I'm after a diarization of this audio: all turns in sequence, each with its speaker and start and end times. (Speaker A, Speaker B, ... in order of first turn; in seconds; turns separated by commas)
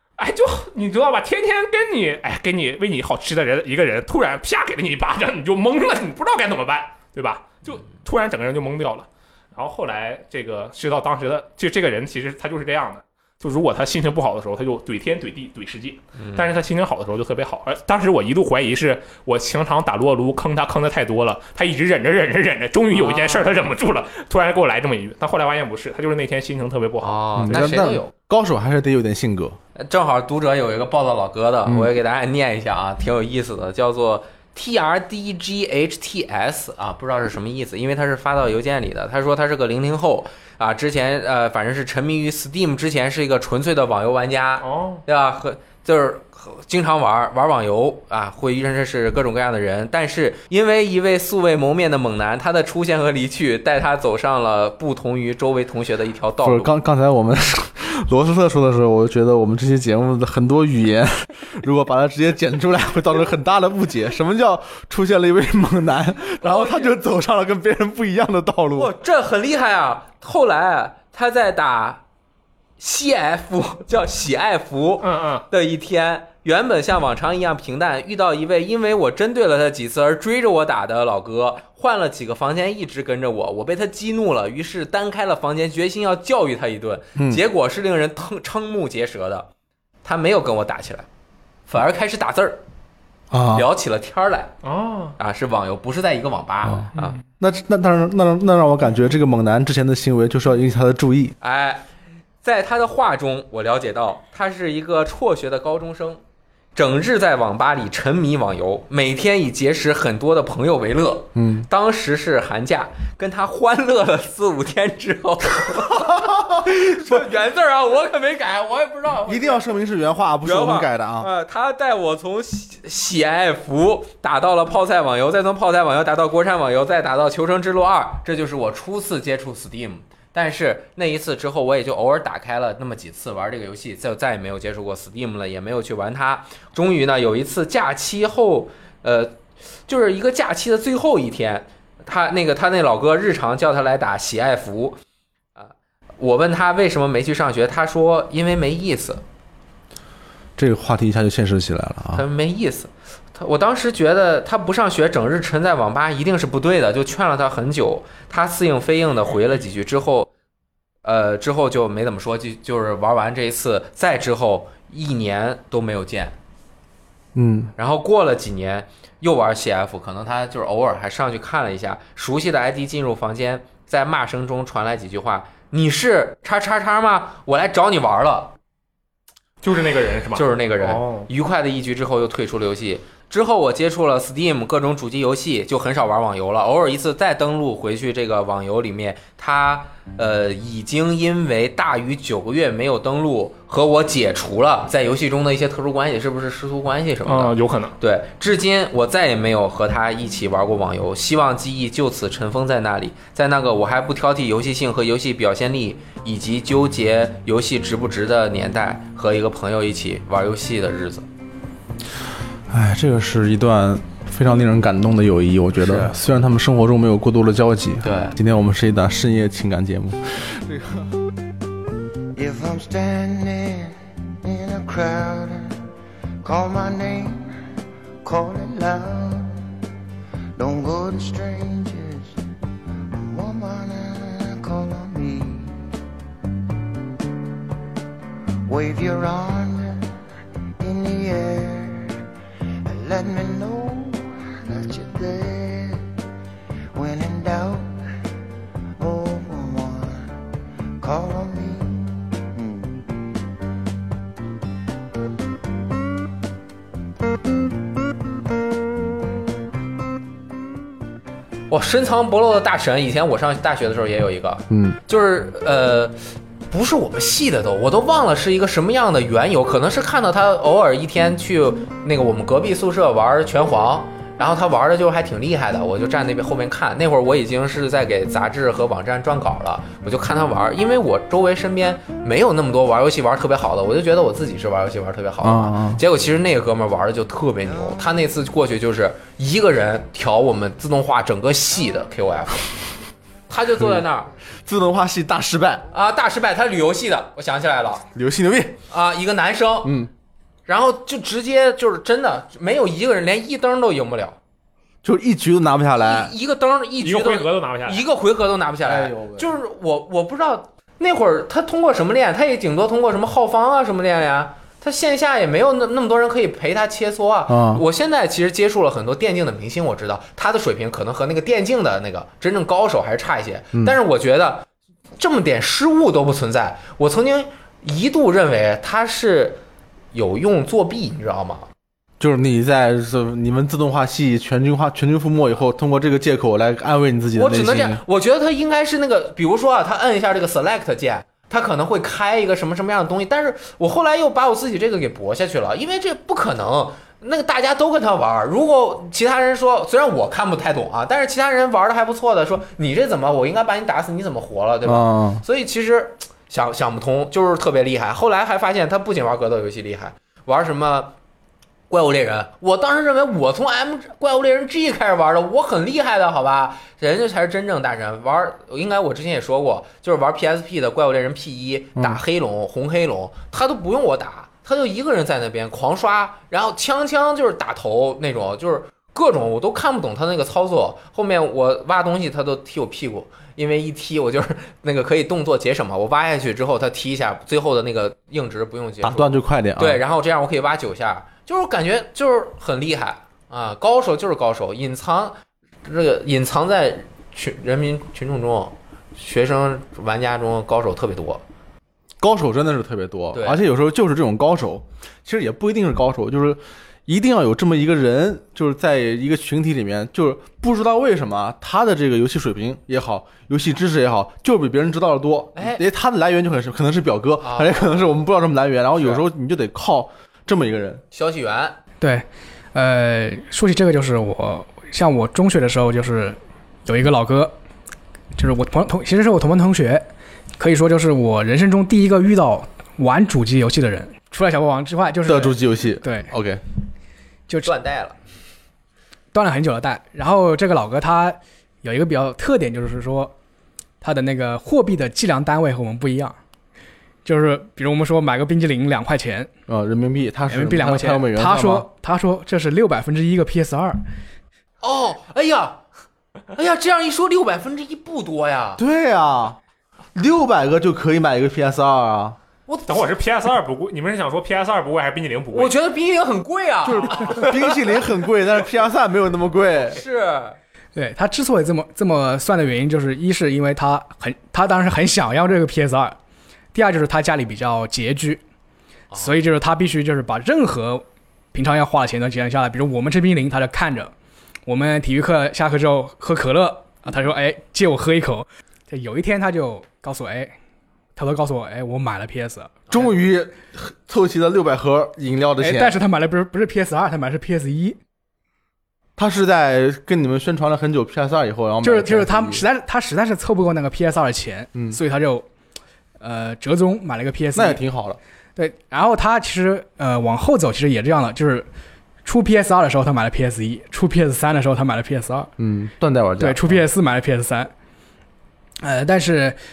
Speaker A: 0.2-27.7, Speaker B: 16.2-16.6, Speaker B: 22.9-23.7, Speaker B: 27.0-28.1, Speaker C: 27.4-29.6, Speaker B: 29.8-56.7, Speaker A: 44.6-45.0, Speaker C: 56.4-68.9, Speaker B: 66.4-66.9, Speaker B: 68.8-72.0, Speaker B: 72.8-89.5, Speaker A: 75.0-75.5, Speaker C: 87.2-87.4, Speaker B: 90.0-91.1, Speaker B: 91.7-92.6, Speaker C: 93.3-93.7, Speaker B: 93.5-94.5, Speaker A: 94.6-95.2, Speaker B: 95.2-97.2, Speaker C: 96.6-101.4, Speaker B: 101.4-101.9, Speaker B: 102.4-106.2, Speaker B: 106.8-119.8, Speaker C: 111.3-111.7, Speaker C: 115.9-117.2, Speaker C: 119.3-121.3, Speaker B: 120.4-145.0, Speaker B: 145.6-149.2, Speaker C: 150.6-152.3, Speaker B: 152.1-160.3, Speaker B: 161.0-166.4, Speaker C: 167.3-167.7, Speaker B: 167.8-178.5, Speaker A: 179.6-181.3, Speaker B: 180.3-211.3, Speaker A: 197.2-197.9, Speaker C: 212.7-221.1, Speaker B: 215.8-216.2, Speaker B: 218.0-218.4, Speaker D: 222.3-225.8, Speaker D: 226.4-227.5, Speaker D: 228.2-229.6, Speaker D: 230.6-232.4, Speaker D: 233.3-235.7, Speaker D: 238.7-240.2, Speaker D: 240.8-242.2, Speaker D: 242.8-246.1, Speaker D: 246.9-248.0, Speaker D: 249.0-250.4, Speaker D: 251.0-253.3, Speaker B: 261.7-292.7, Speaker C: 264.7-265.0, Speaker C: 285.4-286.0, Speaker B: 293.5-294.3, Speaker C: 293.8-294.1, Speaker C: 294.6-295.9, Speaker B: 295.9-298.1, Speaker C: 298.1-298.8, Speaker B: 298.9-300.0, Speaker C: 299.8-300.1, Speaker B: 300.7-304.4, Speaker C: 305.0-306.3, Speaker B: 306.0-324.7, Speaker A: 307.0-308.0, Speaker C: 308.8-309.6, Speaker C: 317.5-317.8, Speaker B: 325.2-329.6, Speaker B: 330.1-331.7, Speaker C: 332.2-338.0, Speaker B: 337.4-361.1, Speaker C: 354.9-355.4, Speaker B: 361.9-401.4, Speaker C: 389.0-390.0, Speaker C: 402.2-421.0, Speaker B: 403.3-403.6, Speaker B: 415.6-415.8, Speaker B: 417.4-418.0, Speaker B: 421.1-421.8, Speaker E: 422.0-427.6, Speaker E: 428.4-430.1, Speaker E: 430.6-436.3, Speaker C: 435.2-436.6, Speaker B: 437.6-438.2, Speaker E: 439.3-443.3, Speaker E: 444.0-446.4, Speaker E: 447.2-449.5, Speaker C: 449.7-451.9, Speaker E: 450.5-454.0, Speaker B: 454.8-455.8, Speaker B: 456.5-458.8, Speaker C: 458.8-459.6, Speaker C: 460.1-462.4, Speaker B: 462.7-463.1, Speaker A: 462.9-465.7, Speaker B: 465.5-467.9, Speaker C: 466.8-470.0, Speaker B: 469.8-470.6, Speaker E: 470.9-476.2, Speaker E: 476.7-478.4, Speaker B: 479.1-479.4, Speaker E: 479.1-484.1, Speaker E: 484.7-490.6, Speaker E: 491.2-492.8, Speaker C: 492.9-496.0, Speaker E: 495.6-498.0, Speaker C: 499.2-502.7, Speaker E: 501.8-505.5, Speaker C: 504.7-505.0, Speaker E: 506.2-507.8, Speaker C: 507.5-508.2, Speaker E: 508.6-511.7, Speaker E: 512.2-515.5, Speaker C: 515.6-516.8, Speaker E: 516.4-517.7, Speaker E: 518.8-519.6